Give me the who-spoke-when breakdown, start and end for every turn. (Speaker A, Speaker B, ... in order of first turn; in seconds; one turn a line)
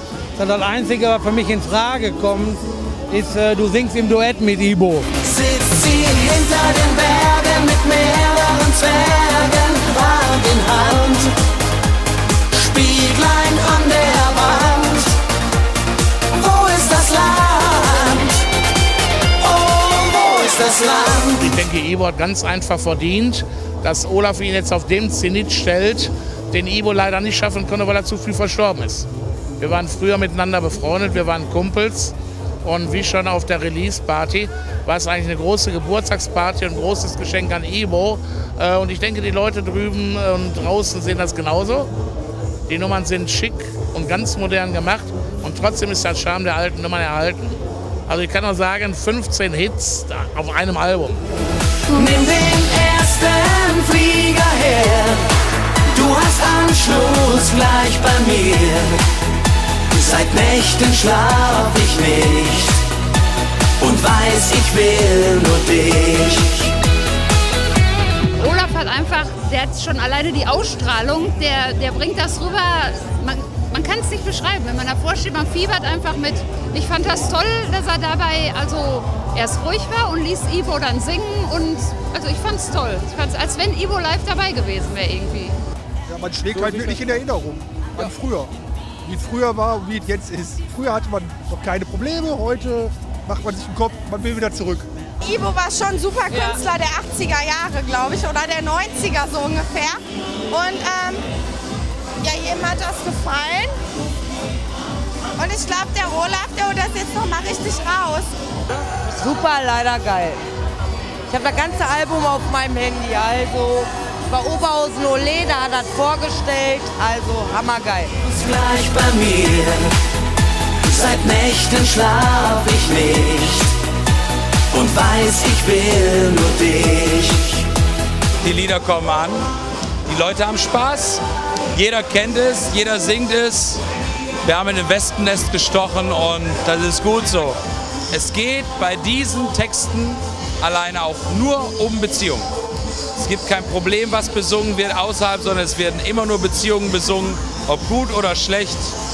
Speaker A: 0.3-5.1
Speaker B: 5.2-11.3
Speaker B: 12.5-15.2
Speaker B: 16.3-18.3
Speaker B: 19.4-21.5
Speaker C: 21.4-29.1
Speaker C: 29.6-41.9
Speaker C: 42.7-51.2
Speaker B: 51.9-55.3
Speaker B: 55.9-59.0
Speaker B: 59.9-62.8
Speaker B: 63.8-66.7
Speaker D: 68.4-85.5
Speaker E: 86.1-88.5
Speaker A: 86.5-87.0
Speaker E: 89.0-94.9
Speaker F: 95.2-100.0
Speaker D: 96.3-96.5
Speaker F: 100.5-101.2
Speaker F: 102.2-103.7
Speaker F: 105.4-108.3
Speaker G: 109.2-110.4
Speaker G: 111.3-118.1
Speaker B: 118.2-119.9
Speaker B: 120.8-123.7
Speaker B: 124.7-127.7
Speaker H: 128.4-129.5
Speaker H: 130.1-133.8
Speaker H: 134.4-137.6
Speaker H: 138.1-142.5
Speaker H: 143.2-148.9